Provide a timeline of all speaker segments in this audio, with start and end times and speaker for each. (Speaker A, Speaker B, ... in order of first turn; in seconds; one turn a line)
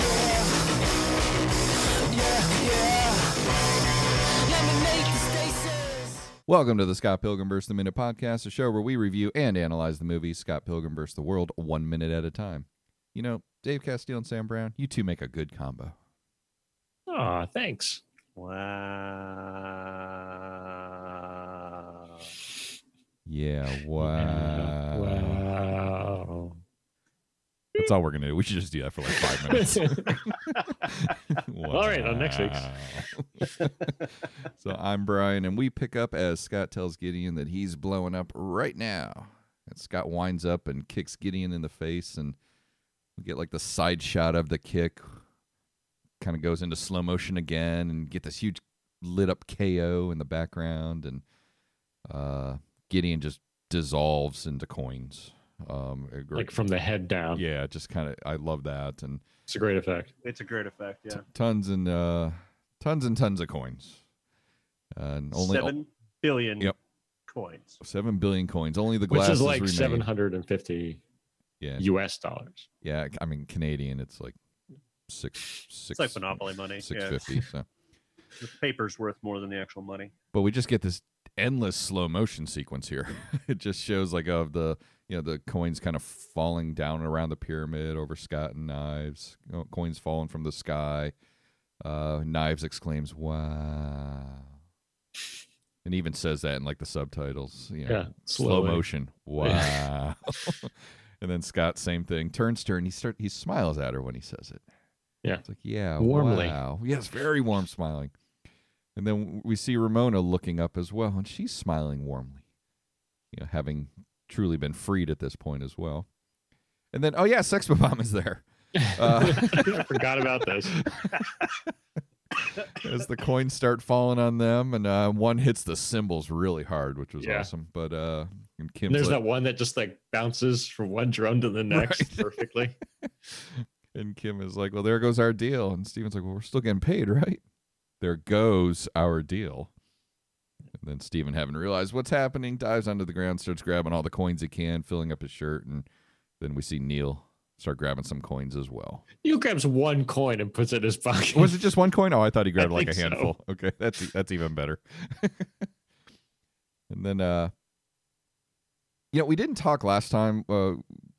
Speaker A: 6.5-15.9
Speaker B: 17.1-18.0
Speaker C: 18.4-22.3
Speaker A: 23.3-25.5
Speaker B: 24.0-26.6
Speaker A: 27.8-42.4
Speaker B: 29.1-30.6
Speaker B: 31.7-32.9
Speaker A: 43.2-45.2
Speaker A: 46.2-51.2
Speaker A: 52.1-56.6
Speaker B: 56.4-57.4
Speaker A: 57.3-59.2
Speaker B: 59.5-60.1
Speaker C: 60.2-61.2
Speaker A: 61.2-64.0
Speaker A: 65.0-65.7
Speaker C: 65.3-66.7
Speaker C: 67.3-67.8
Speaker A: 67.8-70.1
Speaker B: 69.1-71.0
Speaker B: 71.8-72.7
Speaker A: 72.8-74.4
Speaker A: 75.1-77.7
Speaker C: 75.9-77.3
Speaker C: 78.4-80.1
Speaker A: 80.3-91.1
Speaker A: 91.8-94.5
Speaker A: 95.8-104.6
Speaker B: 97.9-98.8
Speaker B: 99.4-99.8
Speaker A: 105.4-108.1
Speaker B: 106.0-106.6
Speaker A: 109.0-112.4
Speaker A: 113.3-116.1
Speaker A: 116.9-119.8
Speaker B: 119.0-120.8
Speaker A: 120.8-121.5
Speaker A: 122.6-129.2
Speaker B: 127.2-127.5
Speaker B: 128.9-132.8
Speaker A: 131.7-132.2
Speaker A: 133.9-137.4
Speaker A: 138.0-139.7
Speaker A: 140.8-145.9
Speaker A: 146.4-149.0
Speaker B: 149.2-151.7
Speaker A: 151.3-155.7
Speaker B: 152.6-153.3
Speaker A: 156.9-157.5
Speaker A: 159.1-160.8